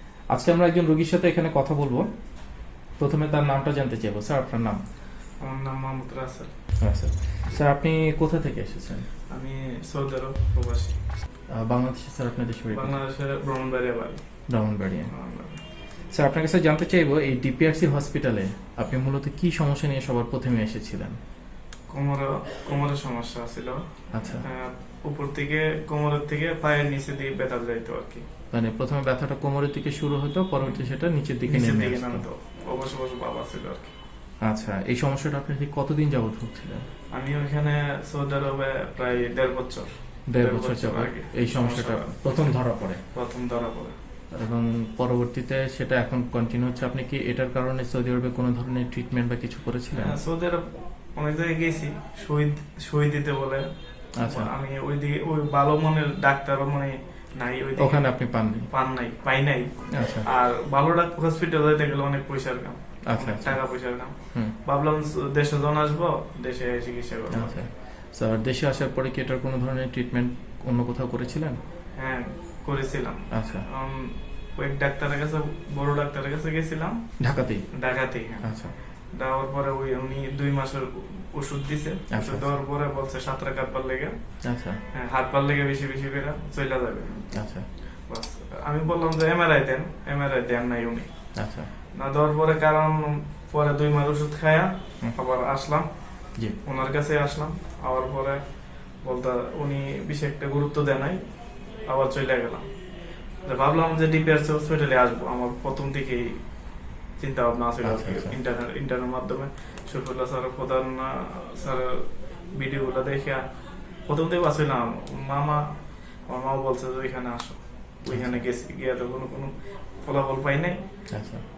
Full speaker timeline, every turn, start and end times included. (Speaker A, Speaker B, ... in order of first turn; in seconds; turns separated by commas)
Speaker A: 0.3-2.1, Speaker A: 3.0-4.8, Speaker B: 5.4-6.5, Speaker A: 6.8-9.1, Speaker B: 9.3-11.0, Speaker A: 11.5-13.0, Speaker B: 12.7-14.2, Speaker A: 14.5-15.1, Speaker B: 15.1-15.6, Speaker A: 16.1-21.2, Speaker B: 21.9-23.8, Speaker A: 24.1-24.4, Speaker B: 24.3-28.2, Speaker A: 28.5-32.2, Speaker B: 31.4-33.9, Speaker A: 34.4-36.8, Speaker B: 37.1-42.6, Speaker A: 40.3-43.0, Speaker B: 43.1-43.9, Speaker A: 44.3-50.1, Speaker B: 50.0-53.6, Speaker A: 54.2-54.5, Speaker B: 54.2-58.2, Speaker A: 57.8-58.7, Speaker B: 58.7-67.6, Speaker A: 59.9-60.2, Speaker A: 63.1-63.6, Speaker A: 67.3-71.6, Speaker B: 72.0-77.0, Speaker A: 73.3-73.6, Speaker A: 77.2-77.7, Speaker B: 77.8-78.5, Speaker A: 78.4-78.7, Speaker B: 79.1-84.2, Speaker A: 82.1-82.5, Speaker A: 84.4-84.8, Speaker B: 84.9-87.3, Speaker A: 87.3-87.6, Speaker B: 88.1-91.1, Speaker A: 91.3-91.7, Speaker B: 91.9-95.9, Speaker B: 96.6-98.4, Speaker B: 99.0-101.2, Speaker B: 101.8-102.7, Speaker B: 103.4-106.4, Speaker B: 107.2-113.4, Speaker A: 107.8-108.3, Speaker B: 114.0-115.6, Speaker B: 116.3-119.5, Speaker A: 118.1-118.4, Speaker B: 120.0-120.8, Speaker A: 121.1-121.4